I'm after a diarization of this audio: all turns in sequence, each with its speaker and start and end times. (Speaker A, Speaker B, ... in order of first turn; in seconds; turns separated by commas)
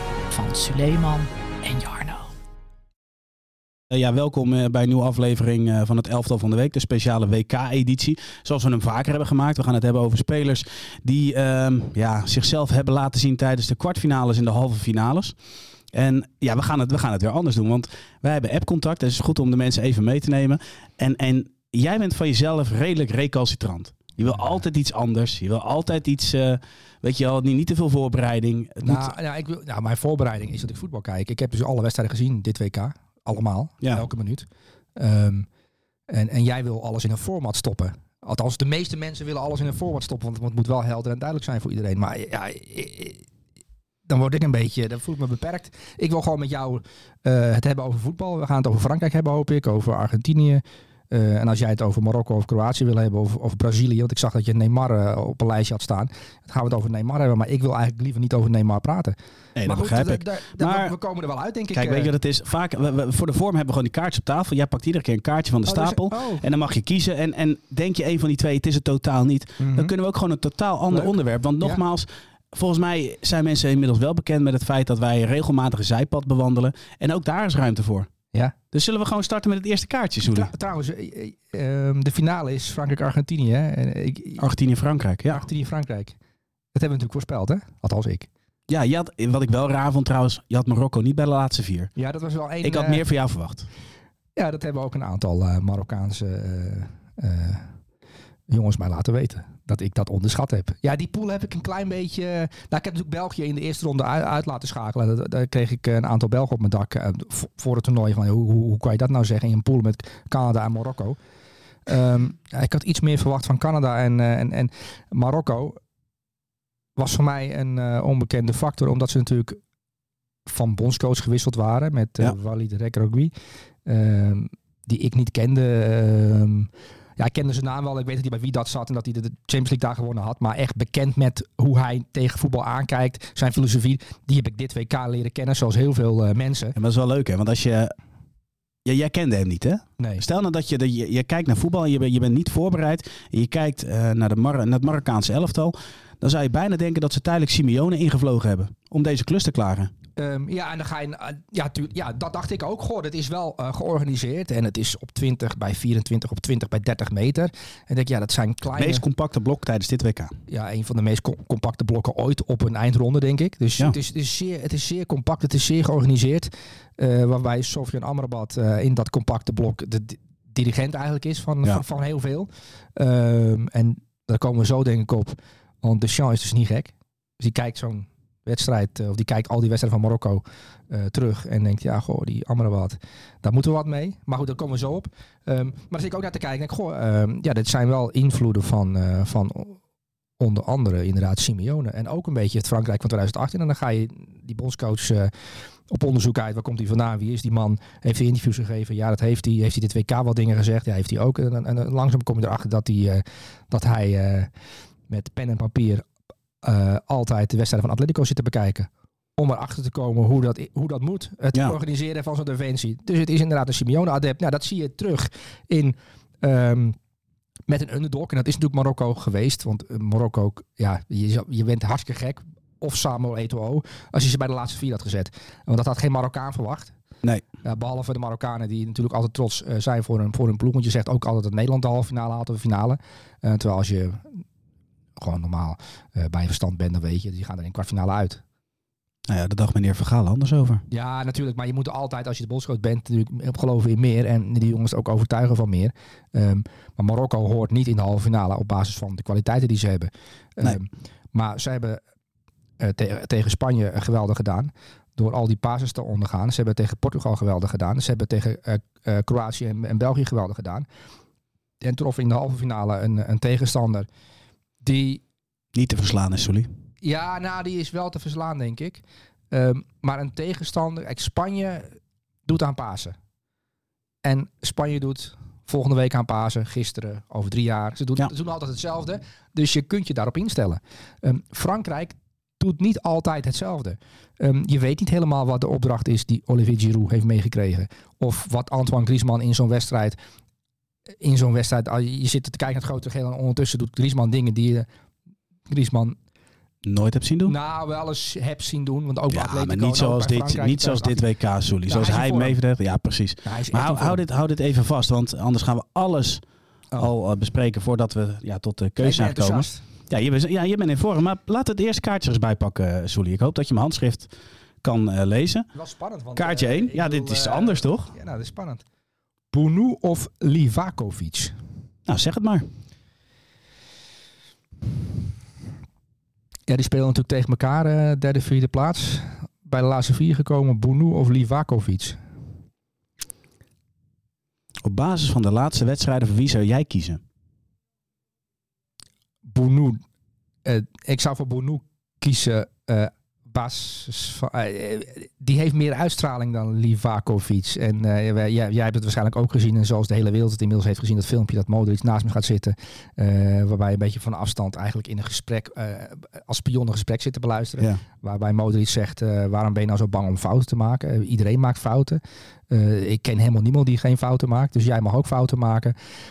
Speaker A: 0.3-2.3, Speaker B: 3.9-15.3, Speaker B: 15.9-29.1, Speaker C: 28.8-35.5, Speaker C: 36.1-43.2, Speaker C: 44.1-62.1, Speaker B: 59.6-60.9, Speaker B: 61.7-78.1, Speaker C: 65.7-66.4, Speaker C: 69.6-69.9, Speaker C: 70.9-71.8, Speaker B: 78.7-80.5, Speaker C: 80.3-84.4, Speaker B: 84.4-85.4, Speaker C: 85.3-86.2, Speaker C: 86.7-88.3, Speaker B: 88.7-91.9, Speaker C: 92.0-93.0, Speaker B: 92.6-93.7, Speaker C: 94.3-97.7, Speaker C: 98.5-111.2, Speaker C: 111.8-115.8, Speaker C: 117.0-119.6, Speaker C: 120.5-123.3, Speaker C: 123.8-136.8, Speaker B: 136.8-137.9, Speaker B: 138.8-149.9, Speaker C: 150.2-159.0, Speaker B: 158.8-160.3, Speaker C: 160.5-189.8, Speaker C: 190.4-195.3, Speaker C: 195.9-204.5, Speaker C: 205.1-206.1, Speaker C: 206.6-217.0, Speaker C: 217.7-226.9, Speaker C: 227.6-234.4, Speaker C: 235.2-238.4, Speaker B: 239.3-240.8, Speaker C: 240.9-252.0, Speaker C: 252.8-260.9, Speaker C: 261.8-264.1, Speaker C: 264.8-265.2, Speaker B: 265.7-266.7, Speaker C: 267.0-271.9, Speaker C: 272.4-273.1, Speaker C: 274.2-290.2, Speaker C: 291.2-294.9, Speaker C: 295.7-296.1, Speaker B: 296.8-297.5, Speaker C: 297.5-301.2, Speaker B: 299.3-306.4, Speaker C: 301.9-302.6, Speaker C: 303.4-304.2, Speaker B: 307.0-314.3, Speaker C: 309.0-309.8, Speaker B: 314.8-315.7, Speaker C: 315.7-318.8, Speaker B: 316.4-318.1, Speaker C: 319.5-321.5, Speaker B: 322.1-322.6, Speaker C: 326.7-332.2, Speaker B: 334.8-337.2, Speaker C: 339.4-340.0, Speaker C: 340.6-365.9